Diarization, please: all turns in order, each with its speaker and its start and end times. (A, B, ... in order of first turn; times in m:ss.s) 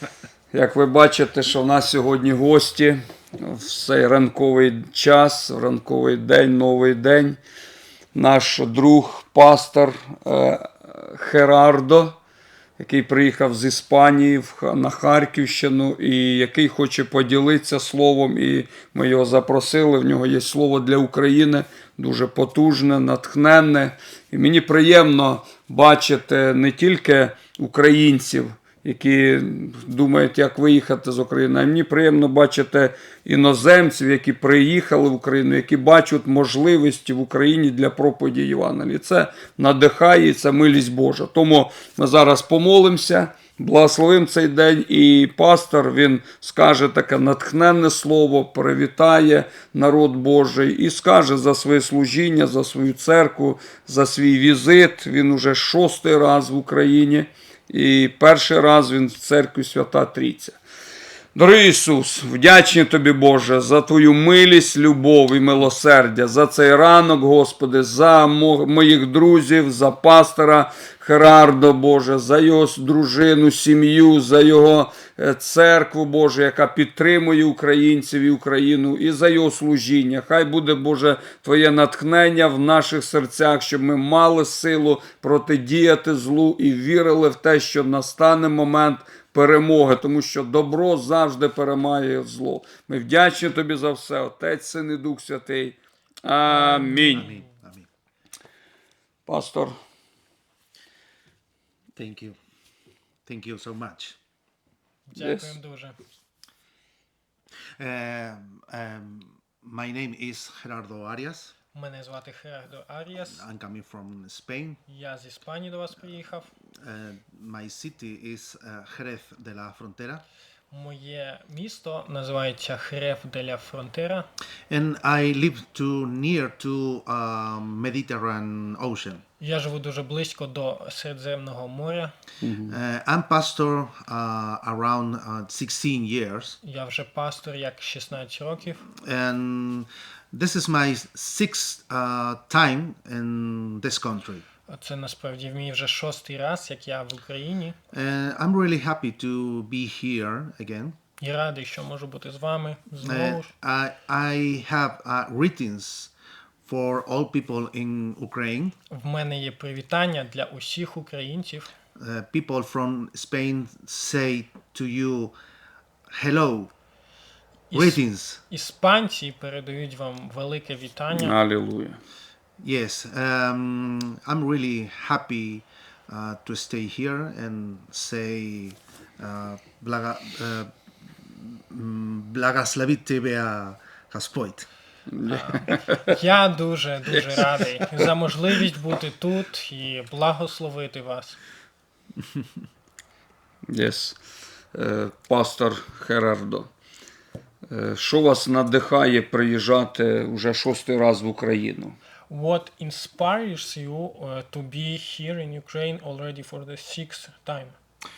0:00.5-0:07.4 A
0:08.1-0:12.1 A
0:12.8-1:00.6 A
1:01.4-1:37.3 A
1:36.5-1:37.4 B
1:37.1-1:37.9 C
1:39.2-1:39.7 A
1:42.0-1:42.4 C
1:43.2-1:44.2 C
1:45.1-1:46.0 B
1:45.1-1:45.6 A
1:47.8-1:51.5 C
1:51.7-1:53.4 B
1:53.3-1:54.8 C
1:54.9-1:56.5 B
1:56.8-2:00.2 C
2:00.7-2:04.3 B
2:04.7-2:09.2 C
2:09.4-2:12.1 B
2:12.4-2:12.8 A
2:12.7-2:16.6 C
2:16.6-2:18.9 B
2:19.0-2:24.4 C
2:24.7-2:27.8 B
2:27.9-2:31.0 C
2:31.2-2:33.5 B
2:33.0-2:36.1 C
2:36.6-2:38.7 C
2:38.9-2:41.7 B
2:42.0-2:45.3 C
2:46.1-2:46.7 C
2:47.7-2:51.3 B
2:47.7-2:48.4 C
2:51.1-2:52.0 A
2:52.6-3:00.7 C
3:01.2-3:04.7 C
3:05.1-3:06.1 A
3:05.2-3:11.4 B
3:07.1-3:07.4 A
3:13.7-3:14.2 A
3:14.7-3:16.7 A
3:17.7-3:22.0 A
3:22.3-3:27.7 B